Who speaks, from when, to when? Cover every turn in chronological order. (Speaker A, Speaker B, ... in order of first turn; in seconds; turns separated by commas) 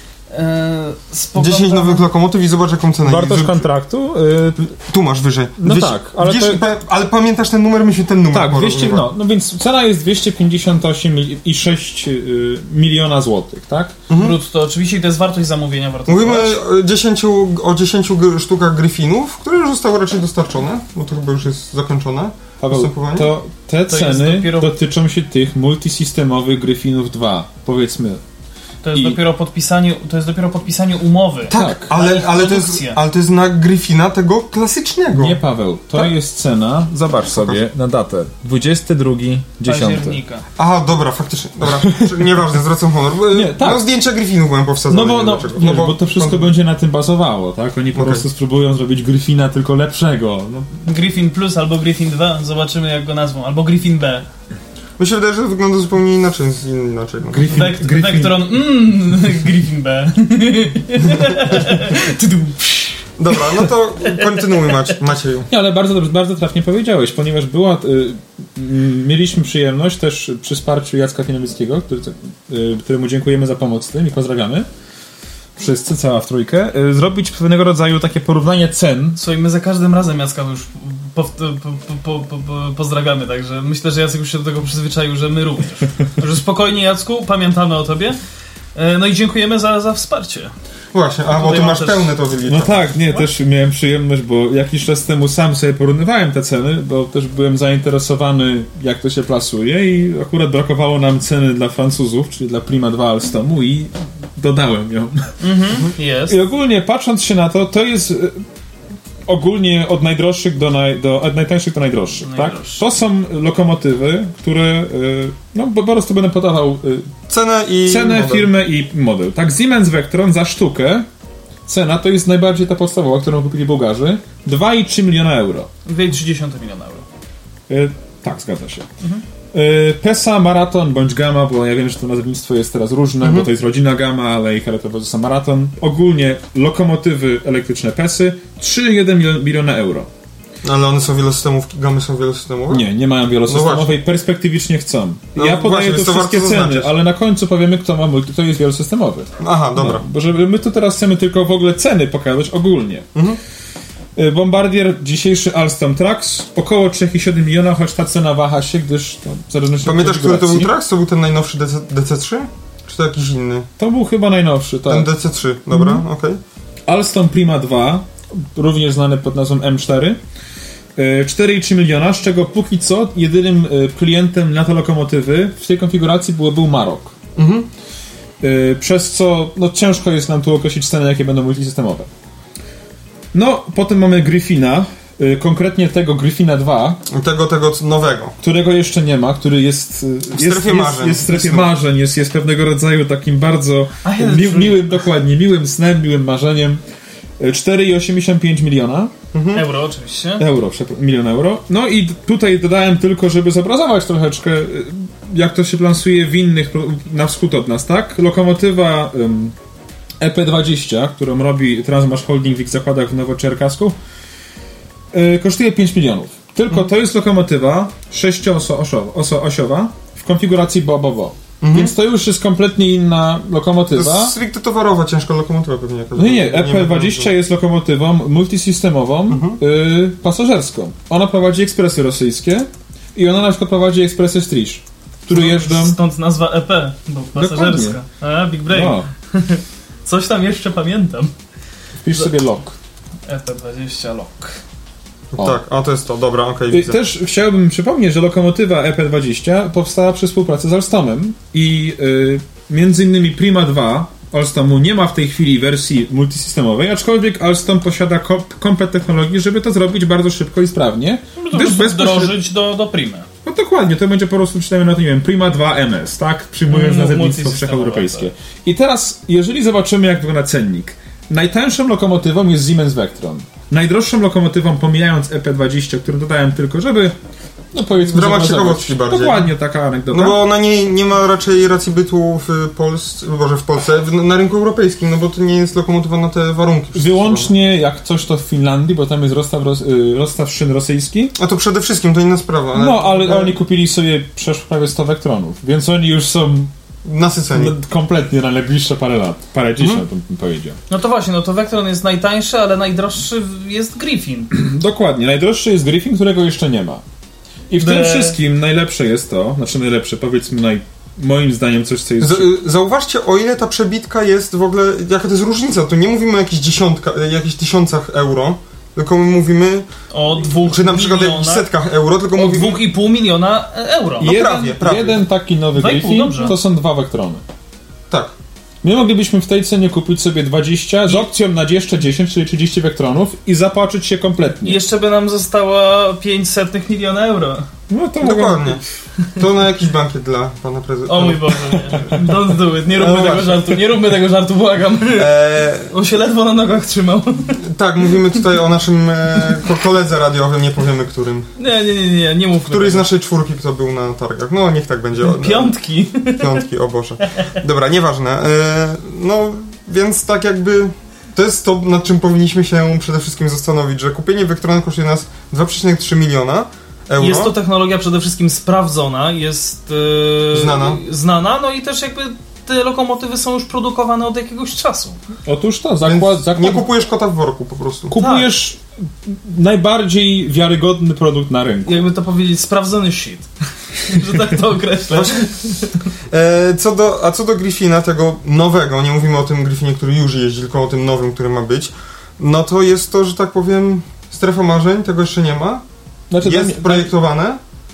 Speaker A: 0.3-2.0, Speaker B: 1.4-3.6, Speaker C: 3.0-4.7, Speaker B: 4.6-9.1, Speaker C: 5.6-6.6, Speaker C: 8.3-14.0, Speaker B: 14.1-14.4, Speaker A: 14.1-16.6, Speaker B: 16.1-23.3, Speaker C: 22.6-28.2, Speaker A: 23.9-24.7, Speaker A: 28.8-33.0, Speaker C: 31.5-31.9, Speaker B: 31.5-35.4, Speaker C: 35.1-40.2, Speaker B: 37.3-37.6, Speaker A: 39.6-40.5, Speaker B: 40.6-46.5, Speaker C: 41.9-42.2, Speaker C: 43.3-43.9, Speaker C: 44.9-50.8, Speaker B: 47.9-48.2, Speaker A: 50.9-54.3, Speaker B: 55.0-57.6, Speaker C: 57.3-58.5, Speaker A: 57.5-64.8, Speaker B: 63.2-65.5, Speaker C: 65.5-74.7, Speaker C: 75.6-79.2, Speaker A: 79.2-88.2, Speaker A: 88.8-90.5, Speaker B: 90.9-92.8, Speaker A: 91.3-92.1, Speaker C: 92.5-105.4, Speaker A: 105.4-106.4, Speaker C: 106.3-108.4, Speaker C: 109.3-117.1, Speaker A: 112.2-112.8, Speaker B: 117.3-118.5, Speaker C: 117.9-121.1, Speaker C: 121.7-125.7, Speaker A: 125.9-127.0, Speaker C: 127.7-128.9, Speaker C: 129.5-140.1, Speaker B: 133.2-133.5, Speaker B: 140.6-142.8, Speaker C: 142.7-153.1, Speaker B: 143.5-144.0, Speaker B: 145.3-146.9, Speaker B: 149.4-150.0, Speaker B: 153.1-153.4, Speaker C: 154.2-160.7, Speaker B: 159.8-163.7, Speaker C: 163.8-165.1, Speaker B: 164.9-166.4, Speaker C: 165.7-166.0, Speaker C: 166.9-170.2, Speaker C: 171.0-177.2, Speaker B: 177.4-177.7, Speaker C: 178.4-182.1, Speaker C: 183.3-187.0, Speaker B: 187.1-188.3, Speaker C: 188.4-196.8, Speaker B: 190.3-191.7, Speaker A: 194.0-195.1, Speaker C: 197.4-199.1, Speaker B: 199.3-199.6, Speaker A: 199.5-200.4, Speaker C: 200.4-209.6, Speaker C: 210.2-214.0, Speaker C: 215.1-224.3, Speaker B: 221.6-221.9, Speaker B: 223.9-227.3, Speaker C: 226.1-236.0, Speaker B: 229.3-229.6, Speaker A: 235.3-241.3, Speaker C: 237.3-238.0, Speaker C: 238.7-239.1, Speaker C: 242.0-242.8, Speaker A: 243.3-244.6, Speaker B: 245.3-247.0, Speaker C: 246.7-262.3, Speaker A: 261.4-263.3, Speaker C: 263.4-277.1, Speaker A: 266.7-268.3, Speaker C: 277.7-280.4, Speaker B: 278.0-279.5, Speaker B: 280.1-287.5, Speaker C: 286.9-291.4, Speaker B: 291.4-293.6, Speaker C: 292.7-296.7, Speaker B: 297.1-297.8, Speaker C: 297.5-300.8, Speaker A: 300.9-304.5, Speaker C: 304.5-307.0, Speaker C: 307.7-312.5, Speaker A: 307.8-308.4, Speaker B: 312.2-319.9, Speaker A: 320.1-321.7, Speaker B: 320.5-322.8, Speaker A: 322.4-324.4, Speaker B: 324.2-325.2, Speaker C: 324.2-327.4, Speaker A: 325.7-326.5, Speaker B: 328.1-328.4, Speaker C: 328.8-334.8, Speaker A: 334.6-337.7, Speaker C: 337.9-338.8, Speaker B: 338.2-338.8, Speaker B: 339.4-341.9, Speaker A: 341.1-347.6, Speaker B: 342.9-343.8, Speaker B: 345.1-345.9, Speaker B: 347.6-351.5, Speaker A: 351.6-353.1, Speaker B: 352.6-355.7, Speaker A: 355.2-356.6, Speaker B: 356.4-367.6, Speaker A: 367.2-375.2, Speaker B: 370.5-371.0, Speaker C: 375.5-376.9, Speaker B: 376.0-378.1, Speaker C: 378.1-382.1, Speaker A: 378.1-378.5, Speaker A: 381.9-386.0, Speaker B: 385.1-385.5, Speaker B: 386.3-395.8, Speaker C: 396.3-397.1, Speaker B: 396.4-397.6